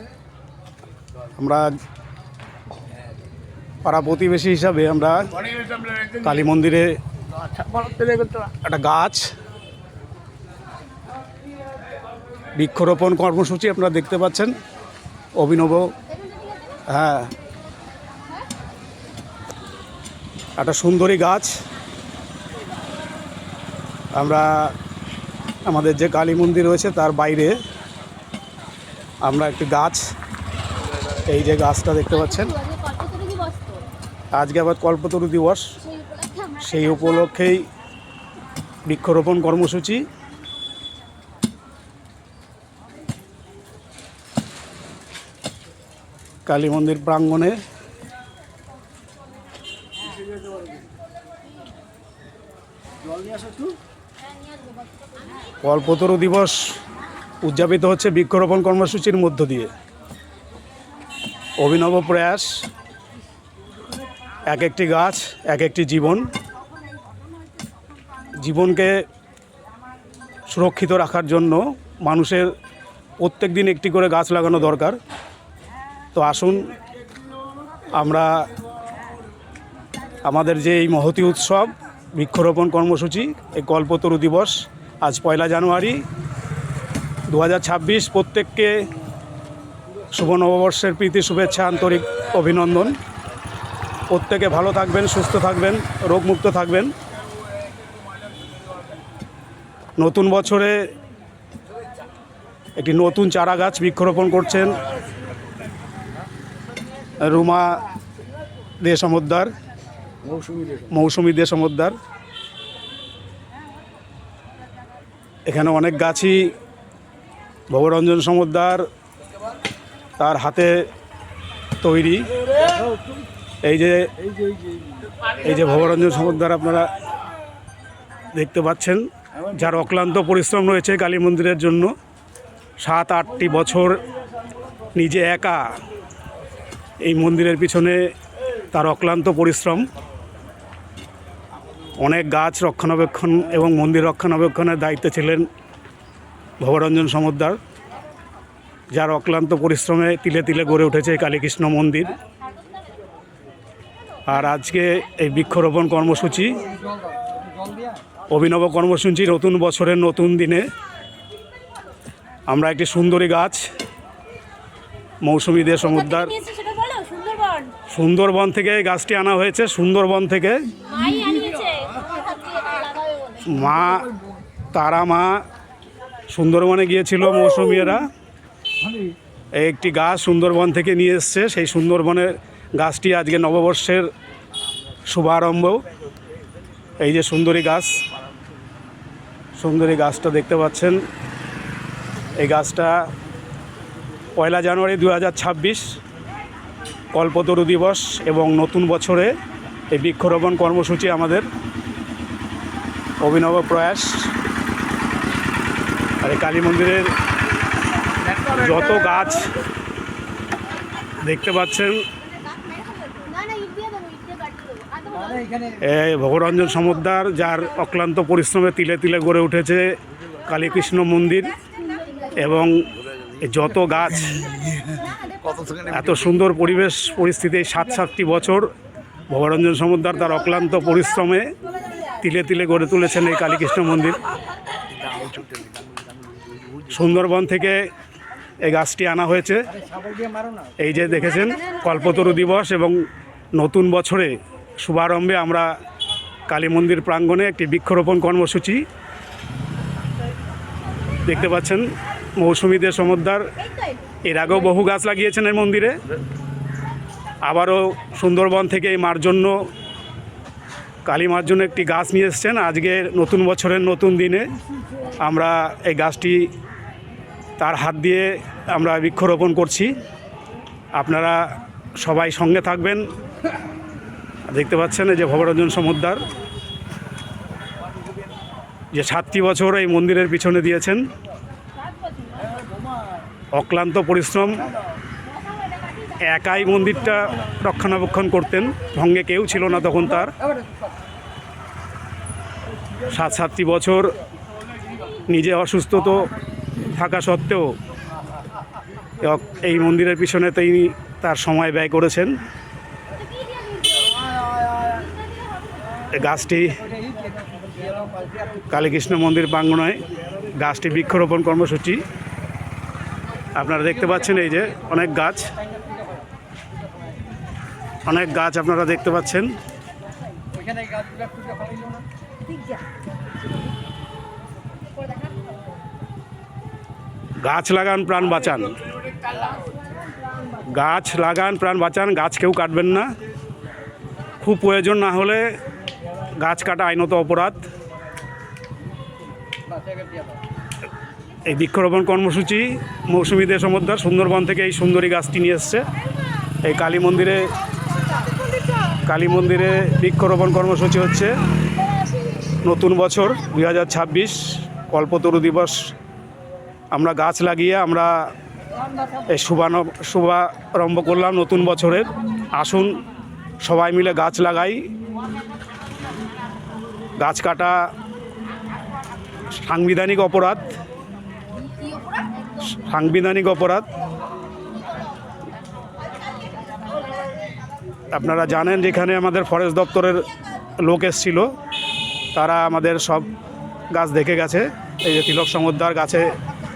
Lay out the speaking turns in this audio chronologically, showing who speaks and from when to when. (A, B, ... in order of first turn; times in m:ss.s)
0:01.4-0:01.7 A
0:03.8-0:05.3 A
0:06.2-0:07.0 A
0:07.7-0:09.3 A
0:12.6-0:14.5 A
0:15.4-0:15.9 A
0:16.1-0:16.8 B
0:16.9-0:17.3 A
0:20.6-0:21.6 A
0:24.1-0:24.7 A
0:25.7-0:27.6 A
0:29.2-0:30.0 A
0:31.3-0:32.5 A
0:32.3-0:33.9 B
0:34.3-0:35.8 A
0:35.8-0:37.3 B
0:36.6-0:37.6 A
0:38.9-0:40.1 A
0:46.5-0:47.6 A
0:55.6-0:56.7 A
0:57.4-0:59.7 A
1:01.6-1:02.5 A
1:04.5-1:06.3 A
1:08.4-1:09.0 A
1:10.5-1:12.5 A
1:13.2-1:15.0 A
1:16.2-1:16.7 A
1:17.9-1:18.4 A
1:20.2-1:26.0 A
1:27.3-1:28.9 A
1:30.1-1:33.0 A
1:34.1-1:36.9 A
1:40.0-1:40.9 A
1:42.8-1:44.8 A
1:47.2-1:47.8 A
1:48.8-1:49.5 A
1:50.9-1:52.0 A
1:55.5-1:56.5 A
1:57.7-1:58.9 A
2:00.2-2:00.8 A
2:01.8-2:02.3 A
2:03.6-2:04.1 A
2:05.4-2:06.9 A
2:08.3-2:11.9 A
2:12.8-2:14.0 A
2:15.0-2:15.7 A
2:17.0-2:18.1 A
2:18.7-2:19.8 A
2:22.0-2:25.5 A
2:26.6-2:27.6 A
2:28.9-2:32.2 A
2:34.3-2:36.6 A
2:38.3-2:40.7 A
2:42.5-2:43.6 A
2:45.2-2:46.4 A
2:45.8-2:47.8 B
2:47.9-2:50.7 A
2:50.8-2:53.6 B
2:53.4-2:54.1 A
2:54.7-2:55.4 A
2:56.3-2:58.1 A
2:59.6-3:04.1 A
3:05.1-3:05.8 A
3:07.0-3:08.0 A
3:09.6-3:11.0 A
3:12.4-3:13.1 A
3:14.4-3:15.9 A
3:17.1-3:19.4 A
3:19.9-3:21.5 A
3:23.2-3:24.3 A
3:26.2-3:27.1 A
3:28.4-3:29.5 A
3:31.2-3:32.0 A
3:32.5-3:35.7 B
3:35.8-3:39.9 A
3:40.5-3:41.6 A
3:41.9-3:42.4 B
3:42.4-3:42.9 A
3:43.4-3:44.5 A
3:45.1-3:45.8 B
3:45.8-3:48.7 A
3:49.3-3:51.5 A
3:52.2-3:54.2 A
3:56.8-3:57.9 A
3:58.6-3:59.7 A
4:00.8-4:05.7 A
4:01.6-4:01.9 B
4:06.5-4:08.8 A
4:11.2-4:11.9 A
4:12.4-4:13.4 A
4:14.2-4:16.0 A
4:17.4-4:19.6 A
4:21.1-4:24.5 A
4:25.2-4:26.5 A
4:27.6-4:30.0 A
4:31.0-4:33.1 A
4:34.5-4:36.3 A
4:38.9-4:41.1 A
4:42.0-4:42.5 B
4:43.5-4:44.7 A
4:45.6-4:46.2 B
4:46.2-4:50.3 A
4:53.1-4:54.1 A
4:55.3-4:57.7 A
4:59.2-5:02.4 A
5:03.2-5:06.0 B
5:06.1-5:06.8 A
5:08.7-5:12.0 A
5:13.6-5:15.5 A
5:18.1-5:19.5 A
5:27.4-5:28.8 A
5:30.7-5:33.1 A
5:34.4-5:35.5 A
5:36.4-5:37.7 A
5:41.5-5:45.8 A
5:46.6-5:47.5 A
5:49.0-5:51.4 A
5:52.6-5:55.9 A
5:56.9-5:58.2 A
5:59.3-6:03.0 A
6:03.6-6:04.9 A
6:07.2-6:07.8 A
6:09.5-6:10.8 A
6:11.8-6:12.7 B
6:12.7-6:13.9 A
6:18.1-6:20.3 A
6:20.8-6:21.5 A
6:22.4-6:23.3 A
6:23.9-6:26.4 A